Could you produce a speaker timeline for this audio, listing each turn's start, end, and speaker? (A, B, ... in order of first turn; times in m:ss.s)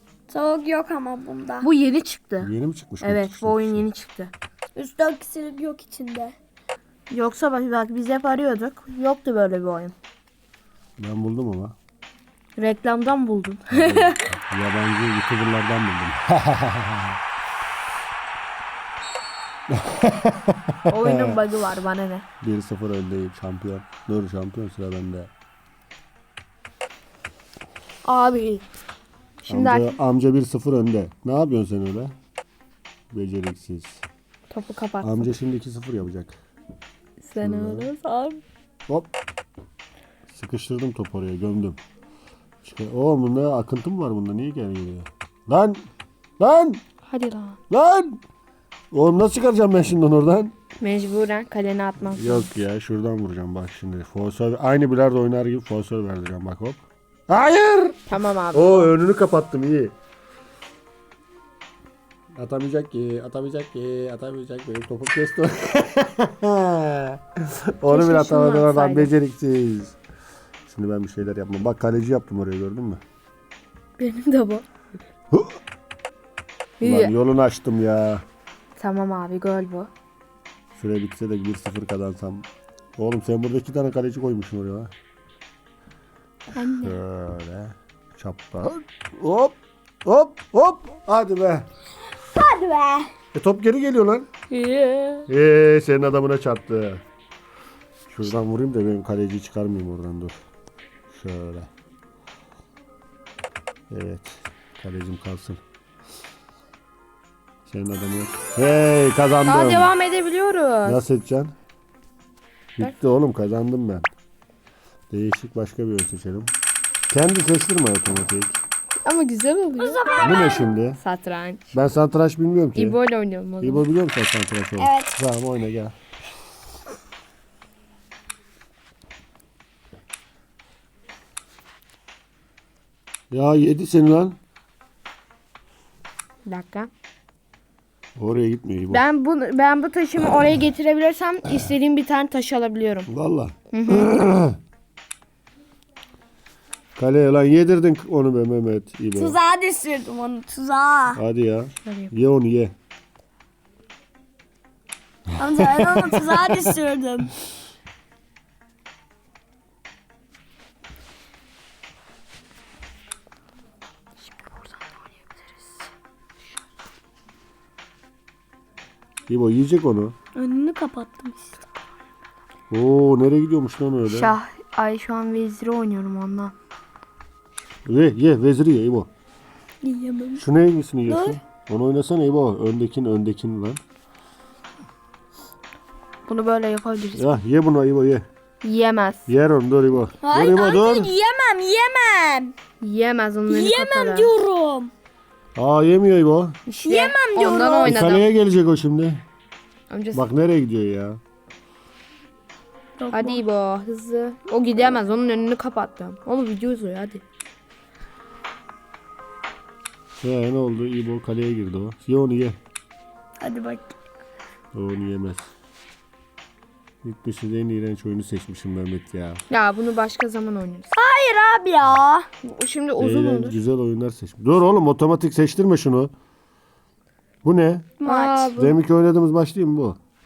0:00.3-0:01.7 A
0:01.6-0:04.3 B
0:02.4-0:03.9 C
0:04.8-0:06.4 A
0:07.1-0:09.9 B
0:11.0-0:11.8 C
0:12.6-0:14.3 B
0:13.7-0:17.2 C
0:19.7-0:21.4 C
0:20.9-0:22.3 B
0:22.4-0:25.3 C
0:28.0-0:28.6 B
0:29.4-0:30.0 B
0:29.5-0:32.1 C
0:33.1-0:34.0 C
0:34.5-0:35.3 B
0:35.0-0:36.4 C
0:37.2-0:38.4 B
0:37.4-0:37.9 C
0:40.3-0:41.8 C
0:42.6-0:45.8 C
0:46.4-0:46.8 C
0:47.1-0:47.6 B
0:47.7-0:48.2 C
0:48.9-0:50.5 C
0:50.8-0:52.5 B
0:52.2-1:00.0 C
0:58.1-0:58.8 B
1:02.4-1:10.0 C
1:07.9-1:09.1 B
1:10.7-1:13.0 C
1:14.0-1:14.6 B
1:15.3-1:15.6 C
1:16.8-1:17.1 B
1:16.8-1:18.2 C
1:18.8-1:19.9 B
1:20.8-1:24.9 C
1:26.6-1:27.0 B
1:26.8-1:31.7 C
1:32.3-1:33.1 A
1:33.3-1:34.3 C
1:34.5-1:35.3 B
1:35.3-1:37.0 C
1:38.1-1:40.4 C
1:41.1-1:41.7 C
1:43.9-1:45.6 C
1:47.7-1:49.9 C
1:49.5-1:51.0 B
1:50.8-1:51.5 C
1:52.8-1:54.1 C
1:55.1-1:56.5 C
1:57.1-1:58.6 C
1:59.0-2:00.1 B
1:59.8-2:00.7 A
2:00.2-2:01.0 C
2:01.0-2:01.7 B
2:01.7-2:03.0 C
2:02.8-2:03.9 B
2:03.6-2:06.0 C
2:04.8-2:05.2 A
2:13.3-2:14.4 C
2:16.5-2:16.9 B
2:18.2-2:19.0 C
2:18.9-2:23.1 B
2:23.1-2:24.6 C
2:23.7-2:24.1 B
2:27.0-2:29.4 C
2:29.2-2:31.2 A
2:31.1-2:32.7 C
2:31.8-2:32.1 B
2:35.4-2:37.4 A
2:35.6-2:36.6 C
2:49.3-2:50.2 C
2:50.4-2:51.5 A
2:52.7-2:54.4 C
2:54.1-2:56.5 B
2:57.8-2:59.1 C
2:59.8-3:00.4 A
3:00.4-3:03.8 C
3:01.1-3:01.4 A
3:06.3-3:07.4 B
3:07.1-3:08.3 C
3:08.6-3:09.3 B
3:09.3-3:11.1 C
3:10.2-3:12.5 A
3:12.8-3:14.3 B
3:13.5-3:14.9 A
3:15.6-3:16.6 C
3:16.7-3:18.3 B
3:16.8-3:18.0 A
3:17.9-3:19.2 C
3:19.9-3:20.3 B
3:20.1-3:21.2 C
3:23.0-3:23.4 A
3:23.1-3:27.2 B
3:30.2-3:32.6 C
3:33.4-3:34.0 A
3:34.7-3:35.5 C
3:37.0-3:39.4 C
3:39.5-3:41.0 B
3:41.0-3:42.3 A
3:42.4-3:43.6 B
3:43.0-3:46.1 C
3:47.4-3:48.0 C
3:48.0-3:48.5 A
3:48.0-3:48.8 B
3:48.5-3:50.0 C